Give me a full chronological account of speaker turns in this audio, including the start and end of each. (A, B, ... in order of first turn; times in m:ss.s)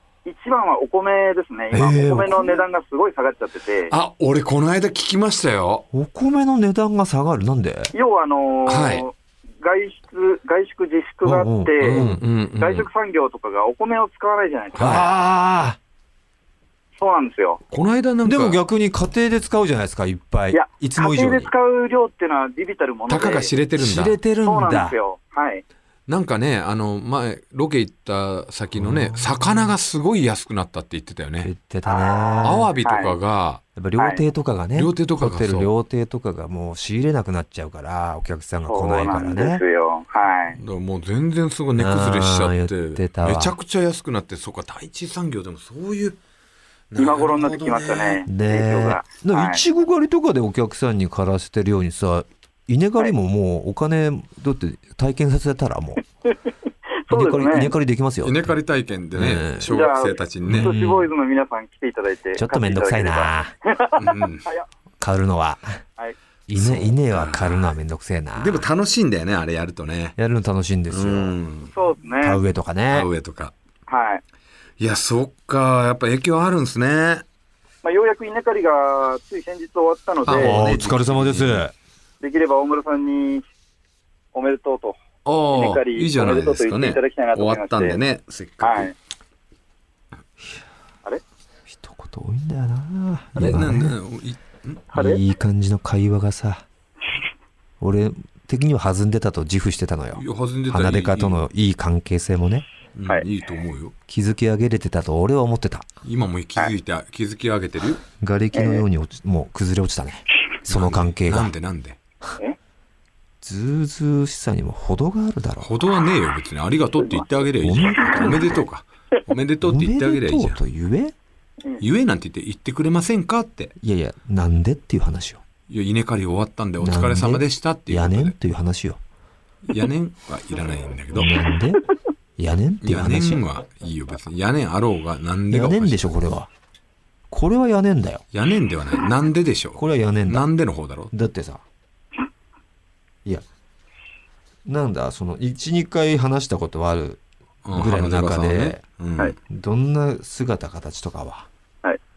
0:00.2-0:03.9 A
0:01.7-0:02.6 B
0:03.9-0:05.9 C
0:05.9-0:07.9 B
0:07.9-0:12.0 A
0:08.7-0:09.1 C
0:11.2-0:12.2 B
0:11.8-0:12.9 C
0:12.6-0:15.0 A
0:14.8-0:15.1 C
0:14.8-0:15.8 B
0:17.0-0:17.6 A
0:17.7-0:18.6 C
0:18.2-0:21.5 B
0:20.5-0:23.5 A
0:23.1-0:24.2 C
0:23.8-0:25.0 B
0:24.4-0:25.6 A
0:26.1-0:31.5 C
0:28.8-0:29.7 B
0:31.4-0:32.7 B
0:31.9-0:33.2 A
0:32.4-0:33.6 C
0:33.8-0:39.6 B
0:34.8-0:35.7 C
0:38.7-0:40.6 A
0:40.5-0:46.2 C
0:41.8-0:43.6 B
0:46.9-0:48.2 C
0:47.0-0:49.6 A
0:48.3-0:56.0 B
0:57.1-0:57.7 A
0:57.1-0:58.6 B
0:58.2-1:00.7 C
0:59.2-0:59.7 B
0:59.7-1:04.7 A
1:00.5-1:01.1 B
1:02.4-1:03.5 B
1:04.0-1:04.5 C
1:05.0-1:05.8 B
1:06.5-1:08.6 B
1:06.6-1:07.7 C
1:08.4-1:10.2 C
1:10.2-1:11.4 B
1:10.9-1:11.7 C
1:11.7-1:12.4 A
1:12.2-1:13.1 B
1:12.9-1:13.5 C
1:13.9-1:14.2 A
1:14.8-1:17.2 C
1:17.8-1:20.6 A
1:20.2-1:21.6 C
1:20.3-1:21.7 B
1:22.2-1:23.4 A
1:24.3-1:25.0 A
1:25.3-1:28.9 C
1:25.5-1:28.0 A
1:28.6-1:28.9 A
1:31.7-1:34.0 B
1:33.4-1:34.8 C
1:34.9-1:35.2 A
1:34.9-1:36.6 B
1:37.8-1:42.6 B
1:40.1-1:41.4 C
1:43.0-1:43.9 C
1:44.1-1:45.9 B
1:46.0-1:48.0 C
1:48.2-1:51.5 B
1:48.5-1:48.8 A
1:50.7-1:52.0 C
1:53.4-1:55.7 B
1:55.6-2:00.6 C
1:57.6-1:58.6 B
1:59.6-2:01.1 B
2:01.8-2:03.7 C
2:03.8-2:05.4 B
2:05.7-2:08.4 C
2:06.8-2:09.0 B
2:09.7-2:11.4 C
2:11.1-2:11.9 B
2:12.4-2:13.4 B
2:12.8-2:16.1 C
2:15.5-2:16.5 B
2:17.3-2:18.2 B
2:18.3-2:21.1 C
2:19.8-2:20.5 B
2:21.1-2:21.6 B
2:24.7-2:27.2 B
2:27.6-2:29.4 C
2:27.7-2:28.8 B
2:29.5-2:31.5 B